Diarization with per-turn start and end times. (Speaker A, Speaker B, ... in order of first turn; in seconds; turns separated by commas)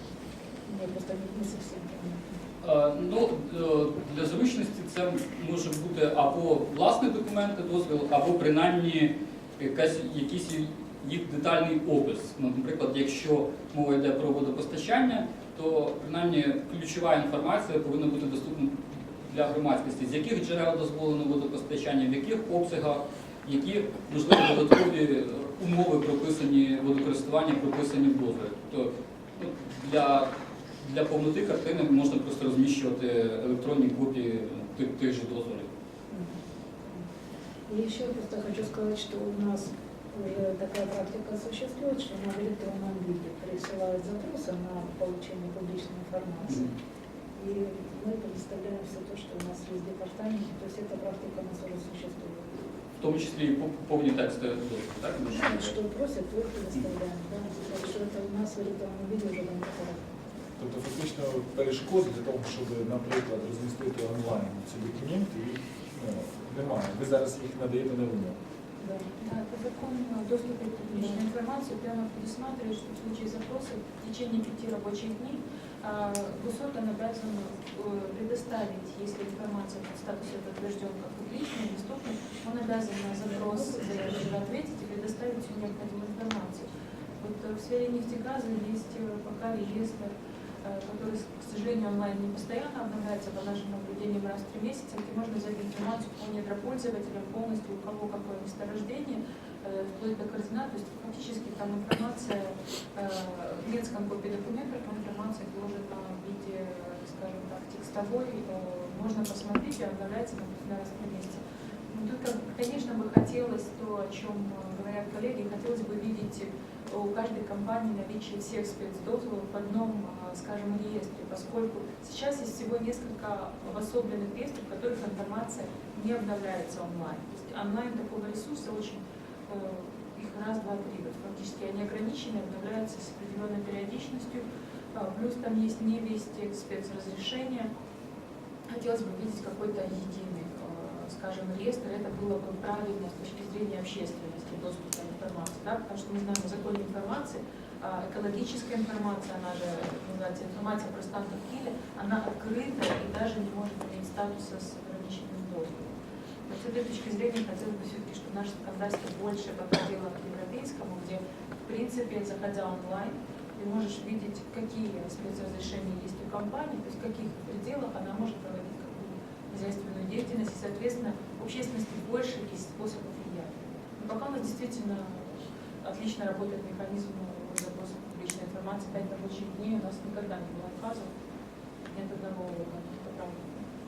Speaker A: 0.7-2.4, Speaker B: 2.6-35.7, Speaker A: 36.1-37.1, Speaker A: 37.7-46.7, Speaker B: 46.5-46.7, Speaker A: 47.4-52.6, Speaker B: 53.0-55.8, Speaker A: 55.3-60.1, Speaker C: 60.6-68.4, Speaker A: 68.8-69.1, Speaker D: 69.2-86.7, Speaker A: 83.3-84.3, Speaker D: 87.2-137.7, Speaker D: 138.7-156.0, Speaker D: 156.5-181.1, Speaker D: 181.8-183.7